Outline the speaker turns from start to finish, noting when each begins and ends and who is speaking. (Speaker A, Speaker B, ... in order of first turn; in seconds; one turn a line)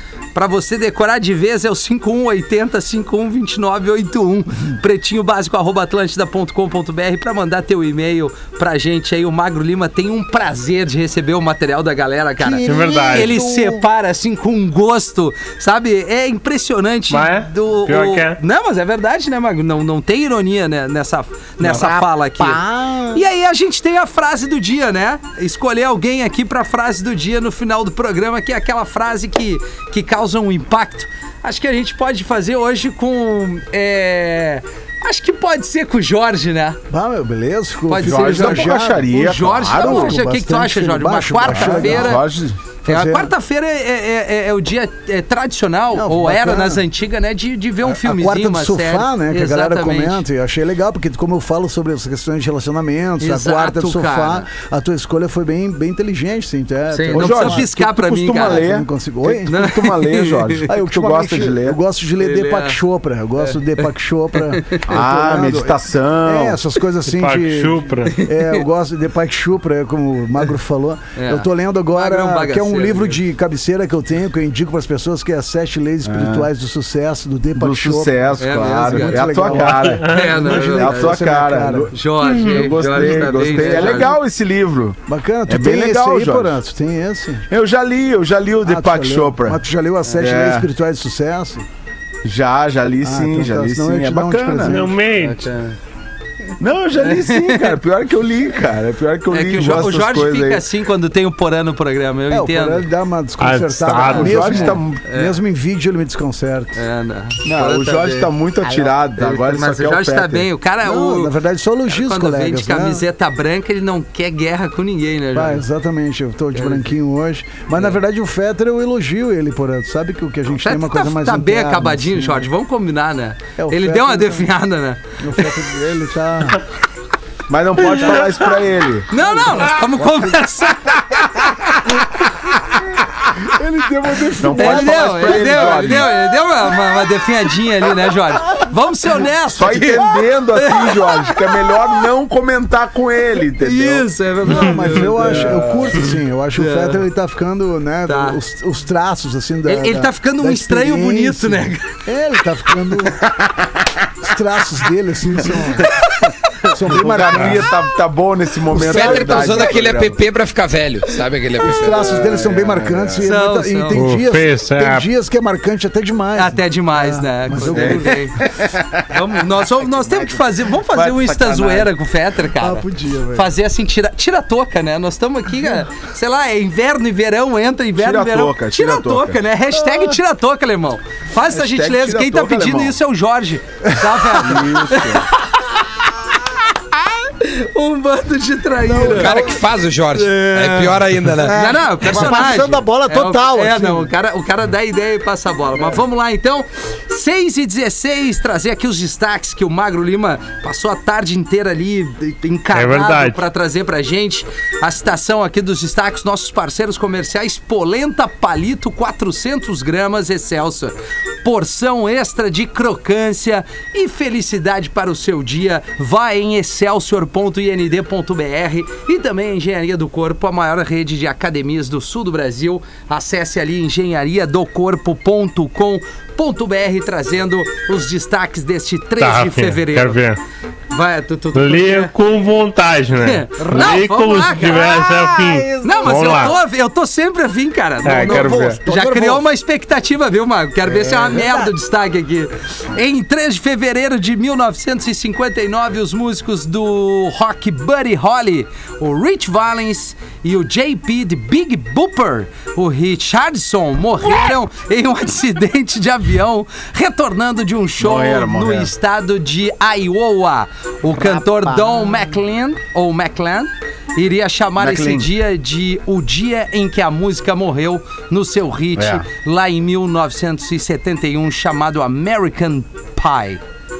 Speaker A: 0.3-36.8
Speaker B: 12.4-13.8
Speaker C: 12.6-13.4
Speaker C: 17.1-18.4
Speaker B: 21.6-23.2
Speaker B: 36.9-42.2
Speaker A: 37.9-42.2
Speaker D: 38.0-40.2
Speaker D: 41.5-42.6
Speaker B: 42.8-43.3
Speaker A: 42.8-50.2
Speaker B: 45.9-46.8
Speaker B: 47.8-59.6
Speaker A: 53.2-54.5
Speaker A: 56.9-58.7
Speaker D: 57.1-61.8
Speaker A: 59.4-60.6
Speaker B: 60.6-81.9
Speaker A: 62.2-62.8
Speaker A: 63.4-63.9
Speaker A: 64.5-64.8
Speaker D: 64.9-66.6
Speaker C: 67.0-68.2
Speaker A: 68.1-68.6
Speaker A: 71.2-73.2
Speaker D: 76.0-76.5
Speaker D: 77.5-86.6
Speaker A: 78.4-81.2
Speaker C: 80.0-80.3
Speaker A: 81.9-84.1
Speaker B: 83.0-84.0
Speaker B: 85.1-87.5
Speaker D: 87.5-89.6
Speaker B: 88.6-91.6
Speaker D: 90.2-90.7
Speaker D: 92.2-94.8
Speaker B: 93.0-94.8
Speaker C: 94.6-95.4
Speaker A: 95.2-95.8
Speaker D: 96.6-100.6
Speaker A: 97.0-97.7
Speaker A: 99.3-102.8
Speaker B: 102.3-106.8
Speaker C: 103.4-104.7
Speaker A: 104.1-104.5
Speaker D: 104.2-105.0
Speaker A: 105.1-105.4
Speaker A: 106.7-111.3
Speaker D: 107.4-110.5
Speaker B: 110.8-113.0
Speaker A: 111.9-115.6
Speaker B: 115.3-122.5
Speaker A: 116.5-116.9
Speaker A: 120.5-125.5
Speaker B: 123.6-124.5
Speaker B: 125.2-126.6
Speaker D: 127.5-129.1
Speaker B: 127.8-128.5
Speaker A: 129.1-132.1
Speaker B: 129.1-130.3
Speaker B: 133.4-136.1
Speaker D: 134.4-136.3
Speaker A: 134.6-141.8
Speaker D: 139.5-144.1
Speaker A: 143.6-145.6
Speaker B: 144.4-153.3
Speaker D: 145.1-146.0
Speaker A: 146.6-147.0
Speaker A: 148.1-148.4
Speaker A: 149.7-151.9
Speaker B: 154.2-156.1
Speaker B: 156.6-157.8
Speaker D: 156.8-160.2
Speaker B: 158.7-159.7
Speaker E: 158.8-162.1
Speaker B: 161.6-168.2
Speaker D: 161.7-163.3
Speaker A: 163.2-164.0
Speaker C: 163.9-165.1
Speaker A: 166.3-168.4
Speaker D: 167.7-169.0
Speaker A: 169.1-189.6
Speaker D: 169.8-171.9
Speaker B: 172.6-173.5
Speaker D: 178.0-179.4
Speaker D: 181.5-182.9
Speaker D: 184.3-185.2
Speaker B: 188.8-189.4
Speaker E: 188.9-191.7
Speaker A: 190.1-230.2
Speaker B: 191.4-194.1
Speaker C: 202.7-203.4
Speaker C: 229.2-230.4
Speaker A: 230.9-232.1
Speaker C: 231.5-236.6
Speaker A: 233.2-234.9
Speaker B: 233.6-234.0
Speaker B: 234.6-236.5
Speaker A: 235.8-273.6
Speaker C: 238.0-238.8
Speaker B: 238.1-239.4
Speaker B: 240.9-241.7
Speaker D: 258.0-258.9
Speaker B: 261.1-262.0
Speaker D: 264.8-265.3
Speaker D: 269.0-269.2